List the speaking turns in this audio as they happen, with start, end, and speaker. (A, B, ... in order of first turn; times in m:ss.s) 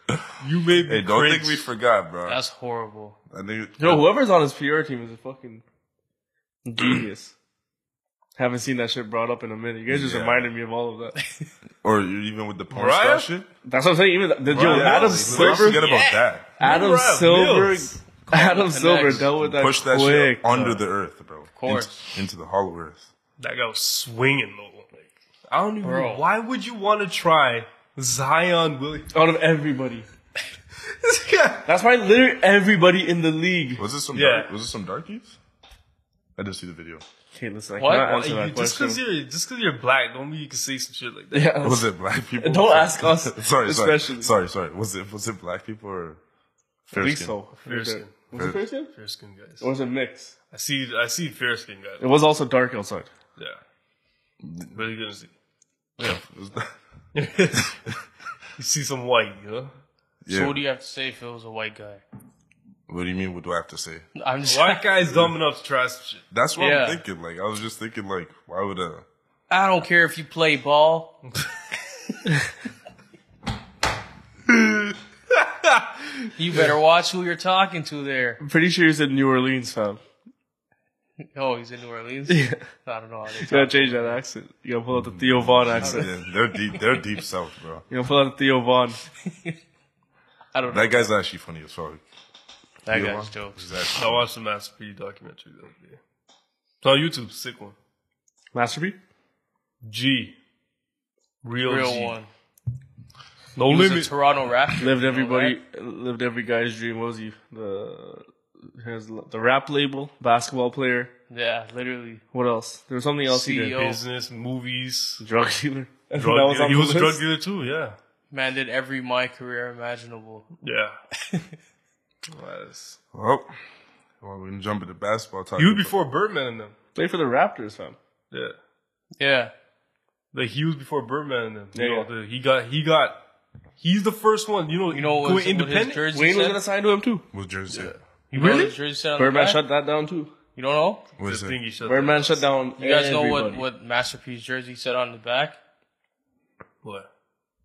0:00.4-0:01.7 A
0:00.8-0:02.4 B
0:02.2-0:03.2 C
0:03.3-0:04.1 B
0:03.8-0:05.6 D
0:06.6-0:07.3 D
0:08.4-0:11.1 D
0:09.9-0:10.5 B
0:11.8-0:13.5 B
0:12.7-0:13.3 A
0:13.6-0:15.8 D
0:14.5-0:16.5 B
0:14.5-0:17.9 A
0:15.8-0:16.2 C
0:16.6-0:20.8 D
0:18.3-0:19.3 C
0:19.4-0:23.1 B
0:21.5-0:22.0 C
0:23.4-0:29.1 A
0:25.8-0:26.2 C
0:29.1-0:30.0 D
0:31.0-0:31.7 A
0:31.6-0:33.8 D
0:33.8-0:35.4 B
0:34.1-0:34.5 A
0:36.4-0:37.0 B
0:37.3-0:39.0 D
0:37.8-0:38.2 C
0:37.9-0:41.5 A
0:41.3-0:41.9 D
0:41.6-0:46.2 B
0:42.4-0:44.3 D
0:46.9-0:47.3 B
0:46.9-0:48.9 D
0:47.6-0:48.3 A
0:48.4-0:48.6 B
0:48.9-0:49.7 A
0:49.6-0:50.3 D
0:50.5-0:52.0 A
0:52.0-0:53.1 D
0:54.4-0:54.7 B
0:54.7-0:55.3 A
0:56.0-0:56.7 B
0:57.1-0:57.8 A
0:58.6-0:59.7 A
1:00.2-1:00.6 B
1:00.3-1:02.0 C
1:02.9-1:04.0 B
1:04.2-1:04.8 C
1:04.5-1:06.2 A
1:05.1-1:05.3 B
1:06.3-1:09.0 B
1:06.6-1:07.0 C
1:09.5-1:11.1 C
1:15.3-1:16.1 A
1:16.4-1:18.4 C
1:18.4-1:20.0 D
1:21.2-1:24.2 C
1:22.3-1:22.6 D
1:23.4-1:26.1 D
1:24.9-1:27.8 B
1:25.8-1:26.1 C
1:27.9-1:29.0 D
1:30.5-1:31.1 C
1:30.7-1:32.0 B
1:32.8-1:33.6 C
1:32.9-1:34.2 B
1:33.9-1:36.0 A
1:36.8-1:37.8 A
1:38.5-1:39.0 D
1:39.8-1:40.4 A
1:41.4-1:42.2 A
1:41.6-1:42.3 C
1:43.6-1:44.1 A
1:43.7-1:45.6 C
1:44.8-1:51.1 D
1:51.3-1:52.2 C
1:52.3-1:53.8 D
1:53.3-1:54.0 C
1:53.7-1:55.2 A
1:55.2-1:57.2 D
1:56.1-1:58.0 A
1:58.3-2:00.4 C
2:00.6-2:01.0 A
2:02.3-2:03.0 A
2:03.1-2:03.5 B
2:04.2-2:05.9 B
2:05.6-2:06.7 A
2:06.9-2:08.0 D
2:09.2-2:09.5 C
2:10.3-2:13.2 A
2:11.7-2:12.1 D
2:13.8-2:16.0 A
2:14.9-2:16.6 C
2:16.1-2:17.2 D
2:17.3-2:17.9 B
2:17.7-2:18.8 A
2:18.3-2:19.6 C
2:19.2-2:20.3 D
2:20.6-2:21.0 C
2:21.2-2:21.6 B
2:21.2-2:22.4 A
2:21.8-2:23.6 D
2:22.8-2:25.6 C
2:26.8-2:27.1 A